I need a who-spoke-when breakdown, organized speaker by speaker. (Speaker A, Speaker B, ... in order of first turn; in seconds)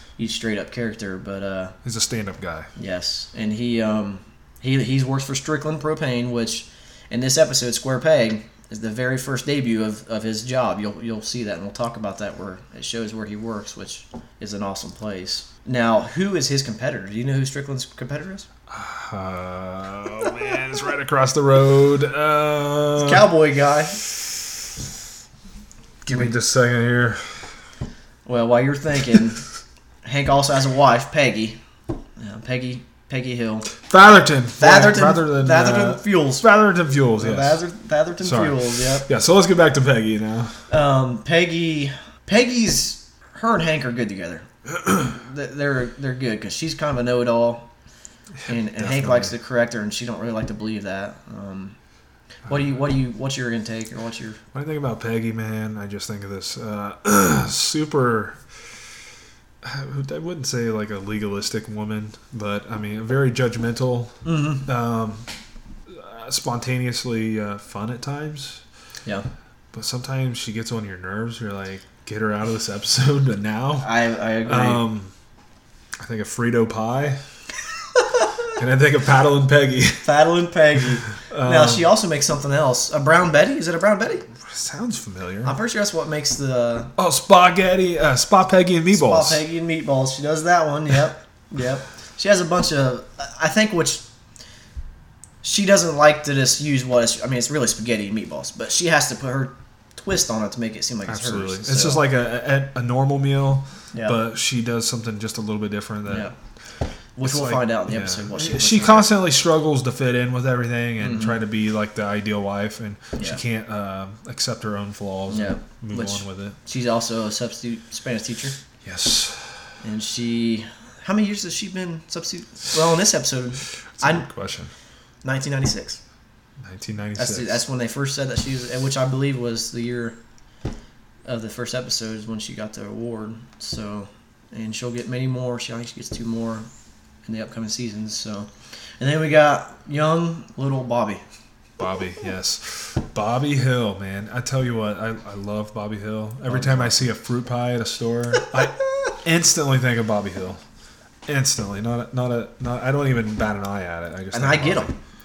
Speaker A: 0.2-1.8, 2.8-18.5, 23.0-24.0, 28.2-29.4, 30.0-31.6, 32.2-33.7, 34.6-36.5, 37.2-39.1, 40.7-47.7, 48.5-51.8, 52.5-54.4, 64.2-64.7, 73.8-74.8, 80.0-84.3, 85.4-86.9, 88.9-94.0, 95.4-102.0, 106.1-106.3, 107.2-109.1, 111.0-111.4, 115.3-118.5, 119.8-124.3, 125.2-126.0, 127.2-130.2, 131.2-136.7, 137.2-141.2, 146.4-147.1, 154.3-154.9
Speaker B: 1.8-2.7, 18.7-23.2, 26.0-27.5, 33.9-37.6, 38.2-40.6, 48.4-49.3, 54.5-58.8, 59.6-65.2, 65.9-68.6, 69.7-73.9, 74.4-75.1, 76.0-77.2, 78.6-80.0, 81.2-81.9, 84.4-85.5, 87.0-89.4, 101.1-106.3, 107.2-116.6, 118.8-119.6, 123.9-124.7, 126.6-127.6, 141.8-150.6, 151.2-154.9